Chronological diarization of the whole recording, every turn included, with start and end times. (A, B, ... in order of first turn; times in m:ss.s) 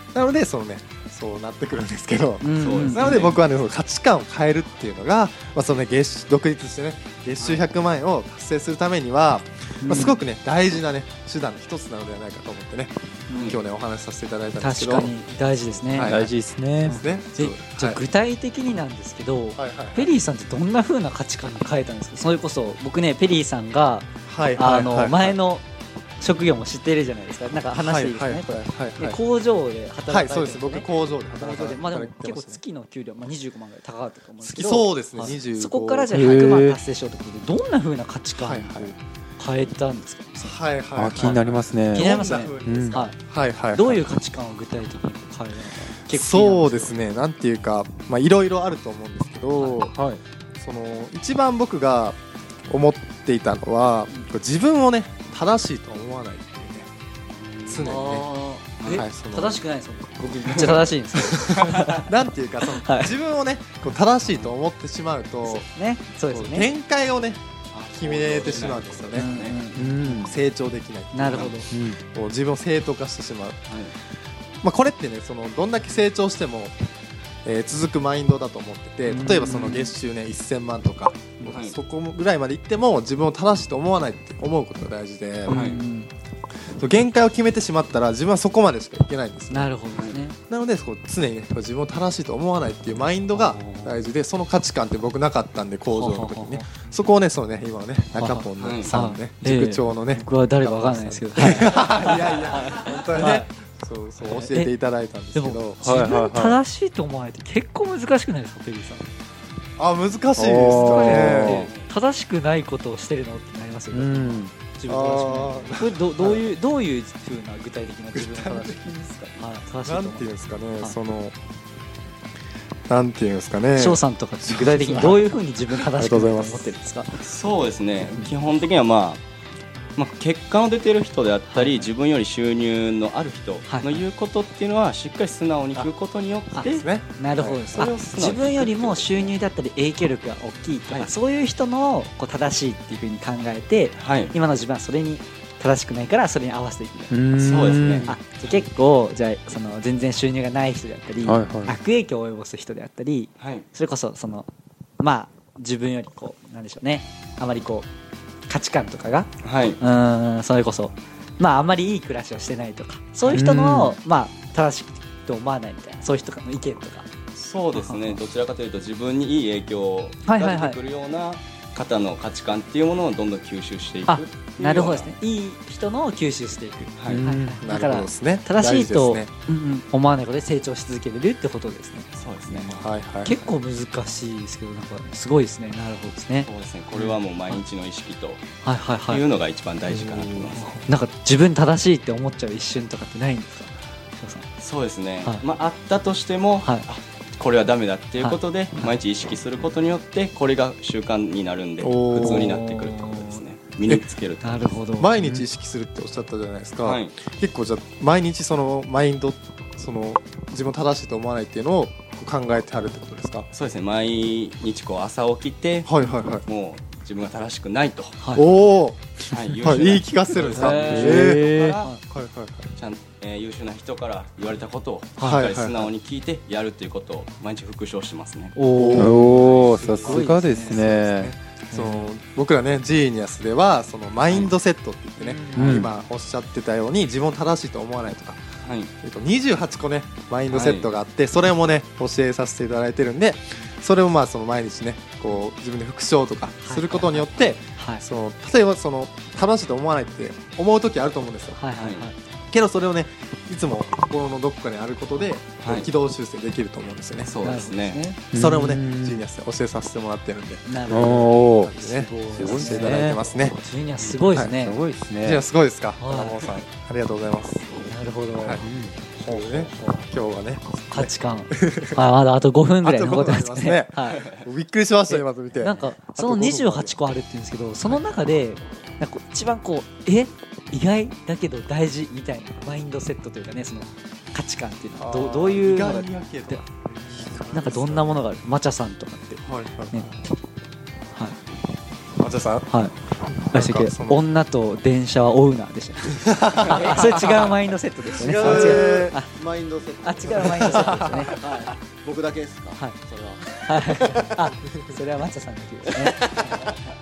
0:00.1-0:15.1 A
0:02.4-0:03.3 B
0:02.6-0:03.4 C
0:07.4-0:07.7 C
0:09.8-0:10.2 B
0:13.3-0:13.6 B
0:13.3-0:13.6 C
0:14.6-0:16.2 B
0:15.9-0:16.3 A
0:16.0-0:17.0 D
0:16.8-0:25.6 B
0:16.9-0:18.0 A
0:19.6-0:20.1 A
0:24.2-0:25.4 A
0:26.2-0:40.6 B
0:27.7-0:29.2 A
0:30.1-0:32.6 A
0:34.4-0:36.1 A
0:36.1-0:36.8 D
0:38.3-0:38.9 A
0:40.4-0:44.1 A
0:40.9-0:43.0 D
0:41.9-0:43.2 B
0:43.7-0:46.9 B
0:46.1-0:49.9 A
0:49.5-0:49.9 B
0:49.9-0:50.2 D
0:50.6-0:52.2 A
0:52.7-0:56.9 A
0:57.3-0:57.9 C
0:57.7-0:58.3 A
0:57.8-1:02.1 B
0:58.8-0:59.0 C
0:58.9-0:59.6 A
1:00.5-1:05.6 A
1:02.7-1:03.1 B
1:04.2-1:04.5 C
1:05.4-1:06.7 B
1:06.3-1:07.4 A
1:07.7-1:09.6 C
1:07.9-1:09.3 A
1:09.1-1:10.3 B
1:09.8-1:10.3 D
1:10.2-1:13.6 A
1:11.1-1:11.7 B
1:11.2-1:11.5 C
1:11.7-1:12.0 D
1:13.7-1:13.9 C
1:14.6-1:16.8 A
1:17.4-1:25.7 A
1:19.1-1:19.9 B
1:21.5-1:21.8 C
1:25.5-1:25.8 C
1:25.5-1:26.1 B
1:26.7-1:29.7 A
1:29.5-1:30.4 B
1:29.9-1:30.2 C
1:30.5-1:46.0 A
1:33.3-1:34.0 B
1:35.9-1:36.6 B
1:38.1-1:43.5 B
1:38.6-1:39.0 C
1:44.3-1:44.7 B
1:45.3-1:49.0 B
1:45.8-1:46.6 D
1:49.8-1:51.7 A
1:50.4-1:51.7 D
1:50.7-1:58.8 B
1:51.5-1:51.9 C
1:53.9-1:54.5 D
1:54.9-1:56.5 A
1:58.1-2:01.4 A
1:59.4-2:00.3 B
2:02.9-2:05.2 A
2:03.8-2:07.2 B
2:05.9-2:06.7 A
2:07.2-2:09.2 C
2:10.0-2:16.9 C
2:11.5-2:11.9 B
2:13.6-2:14.0 B
2:16.5-2:34.5 B
2:16.6-2:17.8 A
2:17.7-2:19.4 C
2:20.8-2:21.1 C
2:24.0-2:24.3 C
2:27.1-2:28.1 D
2:27.4-2:28.6 C
2:31.2-2:31.7 D
2:33.4-2:33.6 C
2:35.0-2:37.9 B
2:38.5-2:47.1 B
2:39.4-2:39.8 C
2:43.4-2:43.9 D
2:47.3-2:55.1 C
2:47.7-2:48.2 B
2:50.2-2:50.8 B
2:54.1-3:07.6 B
2:57.0-2:57.2 C
2:57.1-2:57.6 D
2:57.6-2:59.3 A
3:02.1-3:02.8 C
3:02.7-3:03.5 A
3:06.4-3:08.4 C
3:08.6-3:09.2 B
3:09.1-3:10.8 C
3:09.9-3:10.7 A
3:10.6-3:14.5 B
3:14.6-3:24.8 C
3:18.2-3:18.9 B
3:21.8-3:22.6 A
3:22.2-3:23.4 B
3:24.4-3:25.1 B
3:25.0-3:33.5 A
3:26.8-3:27.2 C
3:33.5-3:38.2 C
3:35.8-3:36.4 A
3:36.0-3:36.3 B
3:38.2-3:38.5 B
3:38.4-3:42.7 A
3:39.3-3:41.9 C
3:40.5-3:42.0 B
3:40.6-3:41.8 D
3:42.8-3:48.6 C
3:45.2-3:45.9 A
3:48.5-3:50.9 B
3:48.8-3:58.4 A
3:48.9-3:51.3 D
3:49.3-3:49.8 C
3:51.7-3:52.1 B
3:55.2-3:55.9 D
3:58.6-3:58.9 C
3:59.0-4:11.6 A
4:00.4-4:00.9 C
4:06.6-4:08.0 B
4:11.6-4:12.2 B
4:11.8-4:12.1 C
4:12.5-4:17.3 A
4:15.6-4:15.9 C
4:17.2-4:18.0 C
4:17.4-4:18.2 B
4:18.3-4:19.2 D
4:18.3-4:23.6 A
4:20.6-4:24.8 B
4:20.9-4:21.7 D
4:22.3-4:23.2 D
4:24.6-4:25.4 D
4:25.2-4:27.8 A
4:26.0-4:26.6 B
4:27.9-4:28.6 B
4:28.4-4:28.6 A
4:28.6-4:29.0 D
4:29.2-4:32.0 A
4:29.2-4:30.0 B
4:30.9-4:34.2 B
4:32.8-4:36.9 A
4:35.1-4:46.6 B
4:37.8-4:38.1 A
4:45.0-4:48.3 A
4:47.5-4:50.1 B
4:49.4-4:50.2 A
4:52.2-4:52.7 A
4:52.7-4:52.9 B
4:53.2-4:54.2 A
4:53.5-4:59.3 B
4:56.3-4:57.0 A
4:56.6-4:57.5 E
4:58.1-5:04.5 E
4:58.2-4:59.1 A
5:00.0-5:01.4 B
5:00.4-5:01.3 A
5:03.6-5:06.7 B
5:05.9-5:06.6 E